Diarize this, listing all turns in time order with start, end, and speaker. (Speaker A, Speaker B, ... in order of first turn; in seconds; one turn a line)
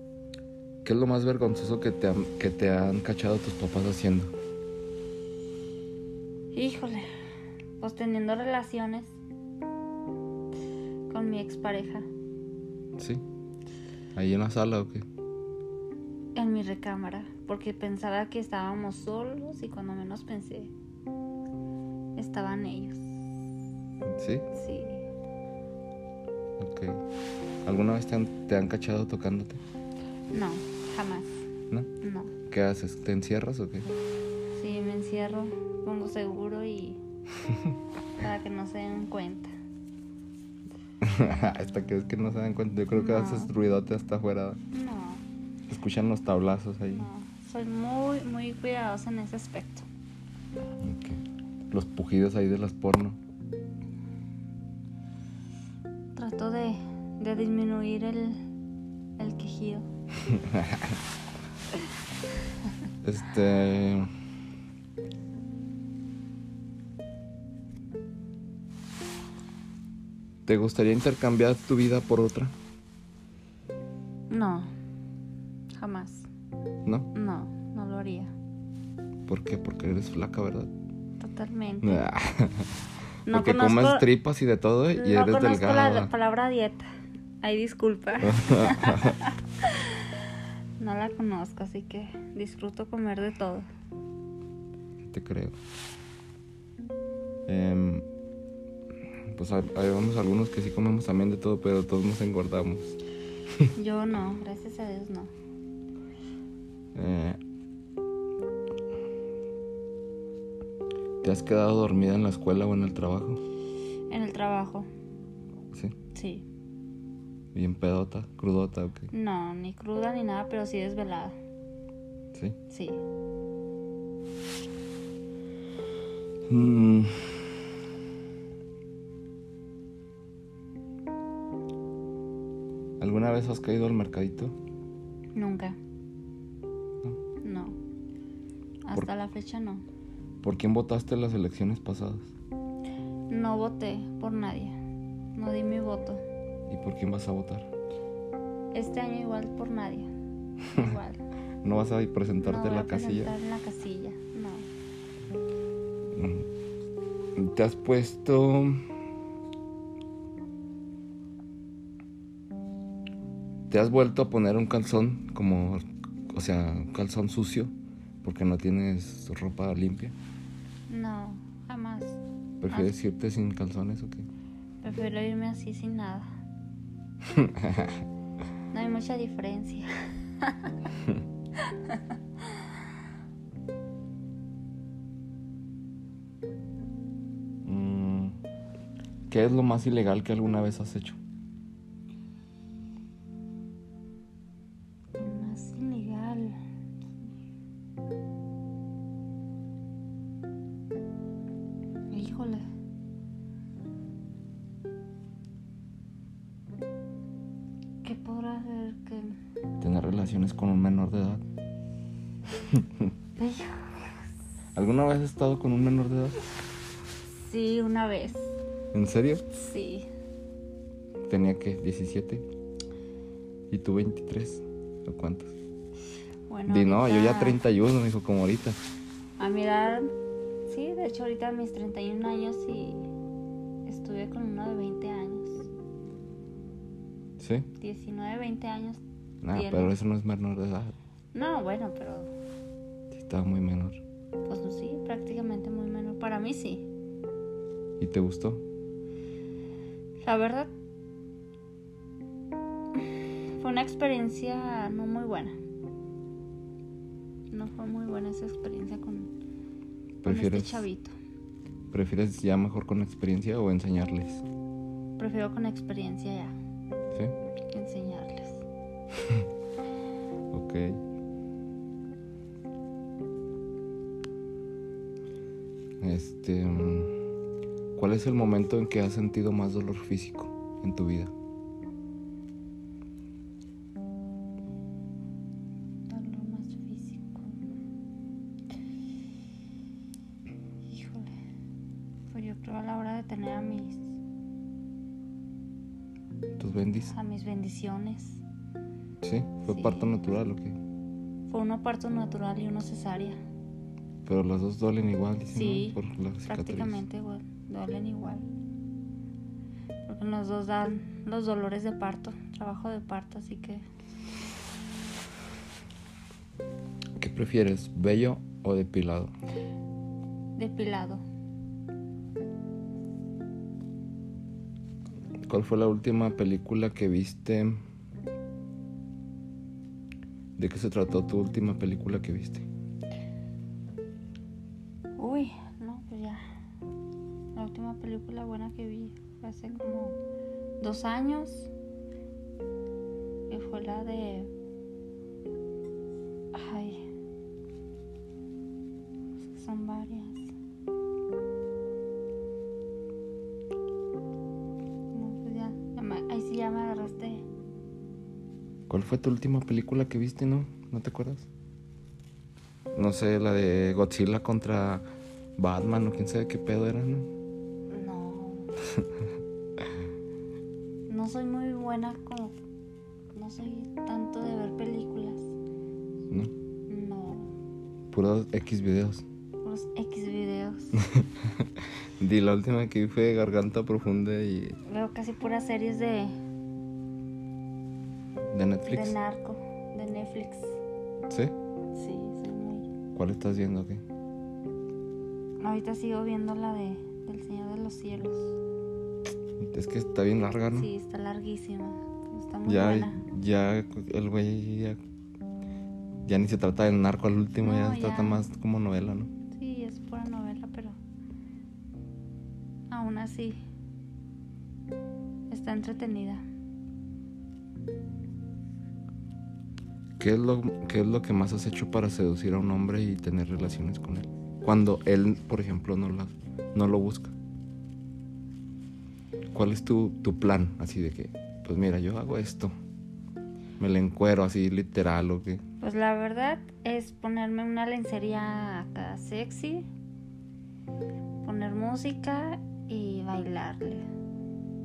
Speaker A: 0.8-4.3
Speaker B: 6.5-7.1
Speaker B: 7.8-9.2
Speaker B: 11.1-12.1
Speaker A: 13.0-13.2
Speaker A: 14.2-15.1
Speaker B: 16.4-20.7
Speaker B: 22.2-23.2
Speaker A: 24.0-24.5
Speaker B: 24.5-25.1
Speaker A: 26.6-27.0
Speaker A: 27.6-29.6
Speaker B: 30.3-31.4
Speaker B: 32.0-32.3
Speaker A: 32.5-33.9
Speaker B: 34.5-37.0
Speaker B: 38.2-39.5
Speaker A: 41.0-44.6
Speaker B: 42.9-43.5
Speaker B: 44.7-45.2
Speaker A: 45.7-47.1
Speaker B: 46.9-49.9
Speaker A: 50.8-53.2
Speaker B: 56.2-58.4
Speaker B: 59.2-59.9
Speaker A: 60.3-61.0
Speaker A: 63.0-64.1
Speaker A: 70.5-72.5
Speaker B: 74.3-74.7
Speaker B: 75.8-76.3
Speaker B: 77.1-78.3
Speaker A: 79.3-80.7
Speaker B: 81.2-82.1
Speaker A: 81.8-82.7
Speaker B: 83.3-84.1
Speaker A: 83.3-86.1
Speaker B: 84.9-86.9
Speaker B: 87.4-90.0
Speaker A: 88.2-89.2
Speaker B: 90.8-93.7
Speaker A: 95.0-95.5
Speaker A: 97.5-98.1
Speaker A: 99.3-103.0
Speaker B: 103.8-105.3
Speaker A: 107.0-107.4
Speaker A: 111.2-113.4
Speaker B: 114.1-114.9
Speaker B: 116.1-116.5
Speaker A: 117.5-119.1
Speaker B: 119.1-121.4
Speaker B: 122.7-123.0
Speaker A: 126.5-127.6
Speaker A: 133.0-134.6
Speaker B: 135.3-135.8
Speaker B: 137.4-137.8
Speaker B: 138.8-139.8
Speaker A: 140.4-142.3
Speaker B: 143.3-144.8
Speaker B: 145.3-146.2
Speaker A: 146.7-147.7
Speaker B: 148.7-150.1
Speaker B: 150.7-151.2
Speaker A: 151.6-153.3
Speaker B: 152.4-154.7
Speaker A: 156.1-156.5
Speaker A: 157.4-158.9
Speaker A: 163.7-170.2
Speaker B: 170.9-172.9
Speaker A: 172.6-174.3
Speaker B: 174.8-176.3
Speaker A: 177.3-178.0
Speaker B: 178.7-179.9
Speaker B: 180.4-180.8
Speaker B: 181.6-182.0
Speaker A: 187.7-188.4
Speaker A: 189.3-191.2
Speaker B: 195.2-196.6
Speaker B: 202.1-202.7
Speaker B: 208.0-209.4
Speaker A: 209.8-211.4
Speaker A: 212.5-213.1
Speaker B: 213.4-213.9
Speaker A: 214.8-216.4
Speaker B: 217.4-218.6
Speaker A: 218.9-219.4
Speaker B: 219.5-220.1
Speaker A: 221.3-222.4
Speaker A: 223.7-225.5
Speaker B: 226.5-227.6
Speaker A: 226.7-228.8
Speaker B: 229.4-230.1
Speaker B: 230.7-233.1
Speaker B: 233.9-235.7
Speaker A: 237.4-237.7
Speaker B: 237.8-239.0
Speaker A: 239.4-241.0
Speaker B: 239.5-239.9
Speaker B: 241.3-242.3
Speaker A: 243.1-244.0
Speaker B: 244.5-246.8
Speaker A: 248.0-248.6
Speaker B: 250.2-250.7
Speaker B: 253.1-255.5
Speaker B: 257.5-259.3
Speaker A: 260.2-260.9
Speaker B: 260.2-261.1
Speaker A: 261.9-264.4
Speaker B: 265.2-266.6
Speaker B: 267.7-268.6
Speaker A: 270.5-271.0
Speaker A: 276.0-277.1
Speaker A: 277.9-281.3
Speaker B: 286.1-287.6
Speaker B: 290.9-291.3
Speaker B: 292.3-294.2
Speaker A: 296.6-297.1
Speaker B: 297.1-298.4
Speaker A: 299.2-300.8
Speaker B: 299.7-300.2
Speaker B: 301.5-303.4
Speaker A: 304.3-307.0
Speaker B: 305.5-308.4
Speaker B: 310.1-313.8
Speaker A: 317.2-319.3
Speaker B: 320.6-321.2
Speaker A: 325.5-327.8
Speaker A: 330.6-332.7
Speaker B: 335.2-336.4
Speaker B: 337.6-340.2
Speaker B: 340.8-341.7
Speaker B: 343.5-344.5
Speaker B: 346.5-347.0
Speaker B: 349.4-350.5
Speaker B: 355.1-357.4
Speaker A: 358.9-361.5
Speaker A: 362.9-365.0
Speaker A: 365.6-367.3
Speaker B: 367.9-368.7
Speaker B: 371.1-372.6
Speaker B: 373.4-375.5
Speaker B: 376.9-377.5
Speaker A: 378.1-379.2
Speaker B: 379.6-381.0
Speaker A: 381.0-381.7
Speaker A: 382.2-384.8
Speaker B: 384.9-386.3
Speaker A: 388.5-389.2
Speaker B: 388.9-390.8
Speaker A: 391.3-391.5
Speaker B: 391.9-392.9
Speaker A: 393.1-394.0
Speaker B: 395.6-398.6
Speaker A: 399.6-400.9
Speaker B: 400.7-403.2
Speaker A: 402.7-405.0
Speaker A: 406.2-409.3
Speaker B: 407.6-408.4
Speaker B: 409.5-411.0
Speaker B: 412.9-413.6
Speaker B: 415.5-416.4
Speaker A: 420.2-427.3
Speaker A: 429.5-432.7
Speaker A: 433.8-435.6
Speaker B: 435.8-439.9
Speaker B: 441.4-444.1